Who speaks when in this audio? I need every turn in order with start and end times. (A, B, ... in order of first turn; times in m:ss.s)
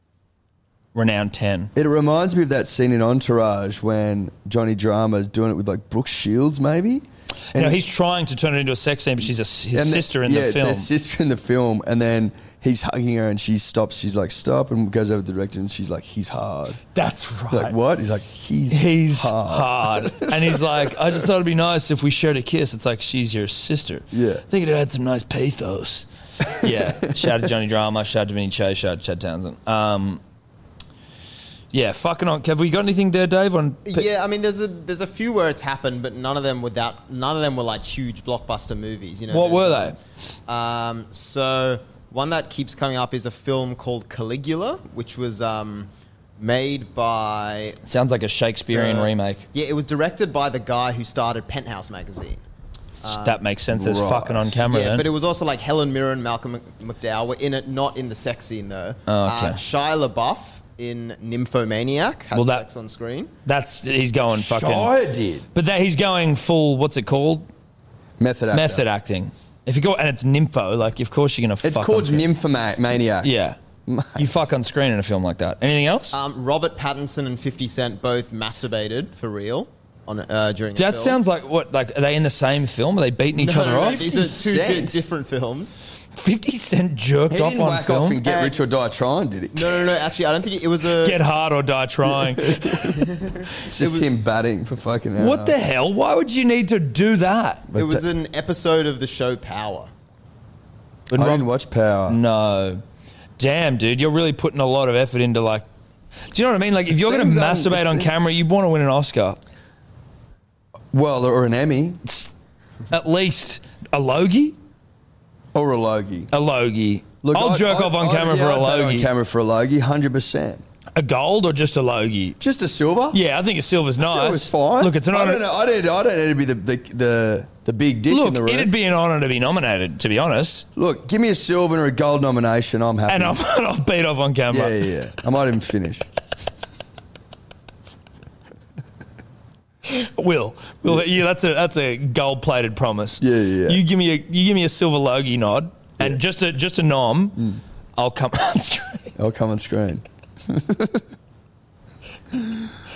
0:00.9-0:01.7 A
0:01.7-0:07.8 B
0:07.5-0:10.9 A
0:09.7-0:16.8 B
0:16.9-0:17.8 A
0:17.5-0:20.7 B
0:18.7-0:30.2 A
0:24.1-0:24.4 B
0:26.6-0:27.3 B
0:31.7-0:34.1 A
0:33.9-0:40.0 C
0:39.3-0:40.0 A
0:40.5-0:47.8 C
0:47.8-0:49.4 A
0:48.7-0:52.4 C
0:53.0-0:53.4 C
0:53.0-0:55.0 A
0:53.7-0:54.6 B
0:54.7-1:03.3 C
0:59.1-0:59.6 A
1:02.3-1:02.6 A
1:03.4-1:04.9 A
1:04.3-1:05.4 B
1:05.5-1:07.5 A
1:08.2-1:08.8 B
1:08.5-1:12.3 A
1:11.6-1:13.3 B
1:13.2-1:13.6 A
1:13.8-1:14.5 B
1:14.2-1:16.1 A
1:16.1-1:21.2 C
1:20.8-1:24.0 A
1:23.4-1:25.8 C
1:23.5-1:25.0 B
1:26.2-1:28.2 A
1:27.3-1:29.9 B
1:28.2-1:28.6 C
1:29.5-1:31.2 C
1:31.0-1:33.0 A
1:32.0-1:33.1 B
1:32.9-1:34.0 C
1:33.6-1:35.6 B
1:35.2-1:37.7 A
1:37.7-1:38.0 B
1:37.7-1:39.9 C
1:41.1-1:41.5 A
1:41.1-1:42.2 B
1:42.1-1:42.8 A
1:43.4-1:45.6 A
1:46.3-1:49.4 A
1:46.9-1:48.1 B
1:50.9-1:52.0 B
1:52.0-1:52.3 A
1:52.9-1:54.6 A
1:55.5-1:56.3 B
1:56.3-1:59.1 A
1:57.2-2:00.6 B
2:00.9-2:02.4 A
2:02.4-2:03.2 B
2:03.1-2:05.4 A
2:04.0-2:08.7 B
2:08.1-2:10.6 A
2:10.8-2:13.4 B
2:13.1-2:14.9 A
2:14.5-2:16.0 B
2:19.8-2:29.1 A
2:23.2-2:23.8 B
2:29.2-2:31.0 B